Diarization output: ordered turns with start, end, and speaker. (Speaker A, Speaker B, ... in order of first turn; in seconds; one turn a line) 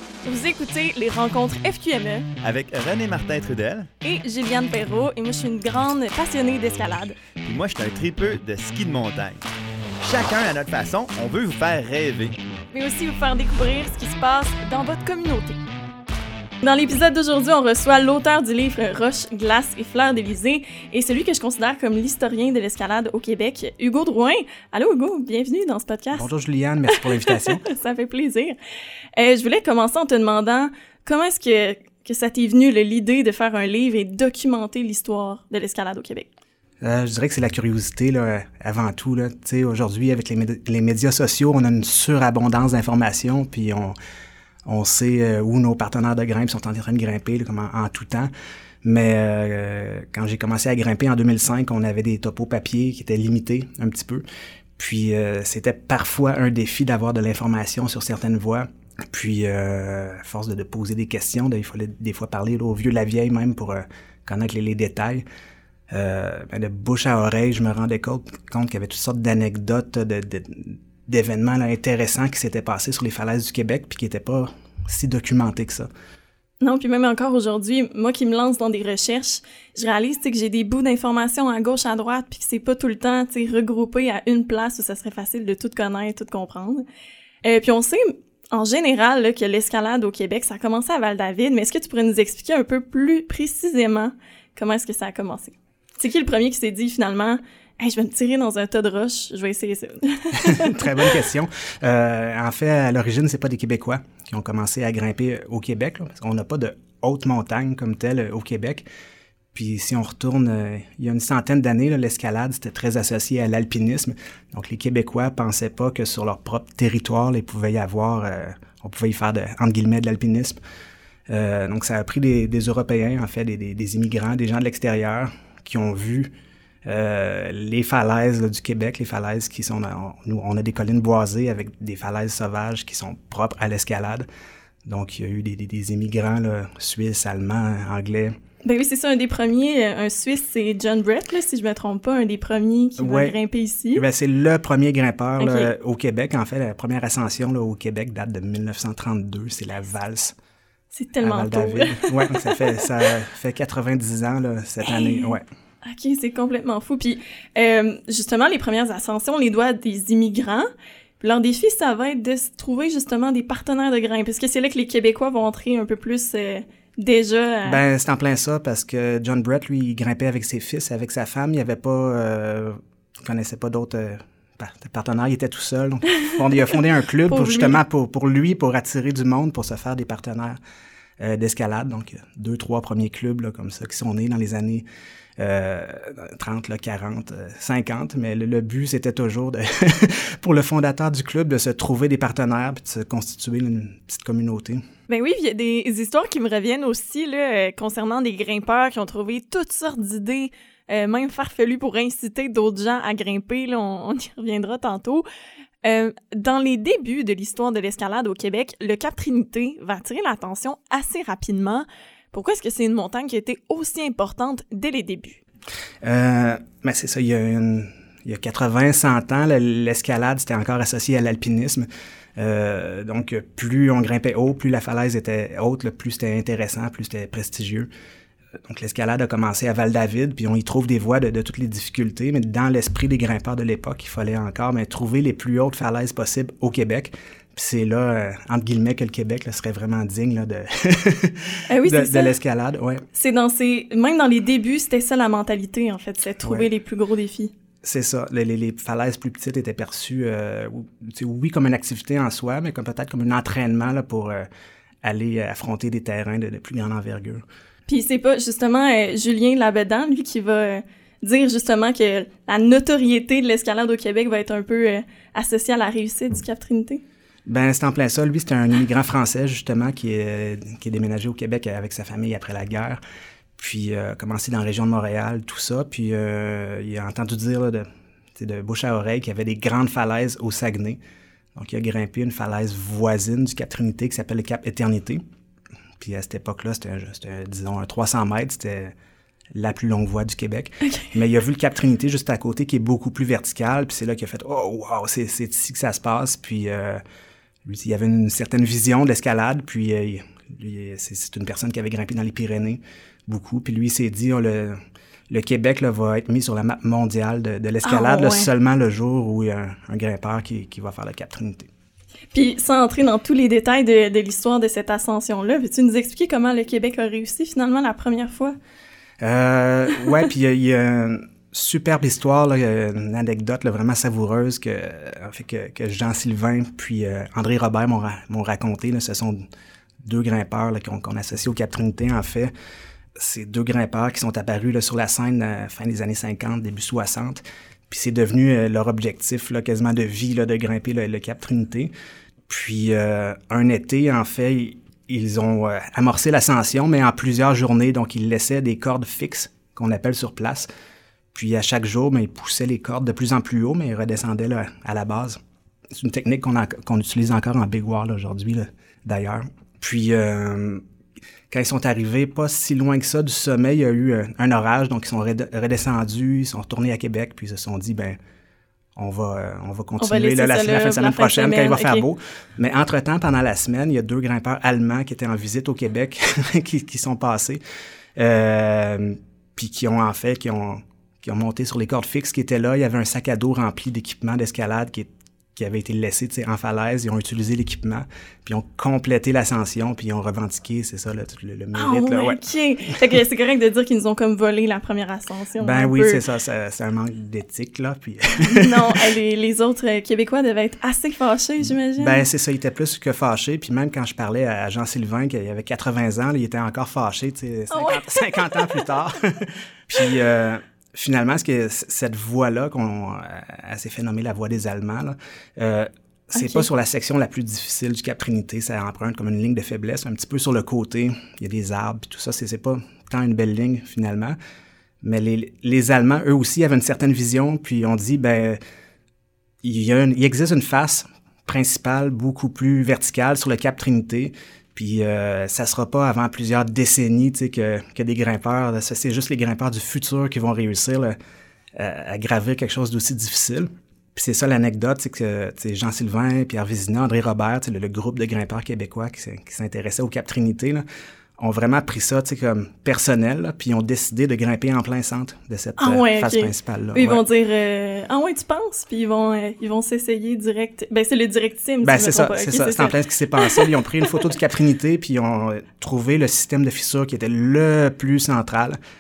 Speaker A: 0.2-2.3
Speaker B: 2.4-3.9
Speaker A: 4.0-7.2
Speaker B: 7.4-9.4
Speaker B: 10.0-12.4
Speaker A: 12.7-15.6
Speaker A: 16.6-26.2
Speaker C: 26.1-27.6
Speaker A: 26.9-28.6
Speaker A: 29.1-36.3
Speaker C: 36.8-43.9
Speaker C: 44.7-48.3
Speaker C: 48.8-54.2
Speaker C: 54.8-65.2
Speaker C: 65.9-75.9
Speaker A: 76.6-86.8
Speaker A: 87.4-101.2
Speaker C: 100.3-108.8
Speaker C: 109.5-120.6
Speaker C: 121.3-126.3
Speaker C: 126.8-134.2
Speaker C: 134.8-138.3
Speaker A: 138.6-144.0
Speaker C: 143.0-143.3
Speaker C: 143.9-150.3
Speaker A: 145.4-145.7
Speaker A: 150.9-152.8
Speaker C: 151.2-155.4
Speaker A: 154.8-155.3
Speaker A: 155.8-160.7
Speaker A: 161.2-167.8
Speaker C: 167.6-180.6
Speaker A: 177.3-177.8
Speaker C: 181.2-184.8
Speaker C: 185.4-194.8
Speaker A: 195.1-205.2
Speaker A: 205.8-215.4
Speaker C: 216.0-221.8
Speaker C: 222.4-227.9
Speaker C: 228.7-243.0
Speaker A: 241.7-242.4
Speaker A: 243.1-247.5
Speaker C: 246.4-246.7
Speaker C: 247.8-254.5
Speaker C: 255.0-257.4
Speaker A: 257.9-267.0
Speaker C: 267.5-273.0
Speaker C: 273.6-277.9
Speaker C: 278.4-281.0
Speaker C: 281.6-285.2
Speaker C: 286.0-288.9
Speaker C: 289.6-297.0
Speaker C: 297.6-304.8
Speaker C: 305.3-311.7
Speaker A: 307.8-308.5
Speaker A: 312.3-318.6
Speaker C: 319.2-329.4
Speaker C: 330.0-332.5
Speaker C: 333.2-341.9
Speaker C: 342.5-350.7
Speaker C: 351.3-355.4
Speaker C: 355.9-360.8
Speaker C: 361.5-368.2
Speaker C: 368.9-377.6
Speaker A: 370.0-372.1
Speaker C: 378.2-392.4
Speaker A: 391.8-396.2
Speaker C: 395.6-399.1
Speaker A: 398.4-402.2
Speaker C: 401.9-424.4
Speaker A: 407.7-408.8
Speaker A: 416.4-416.6
Speaker C: 425.0-428.6
Speaker C: 429.6-441.1
Speaker C: 441.8-450.8
Speaker C: 451.4-457.2
Speaker A: 455.8-464.2
Speaker C: 461.8-468.8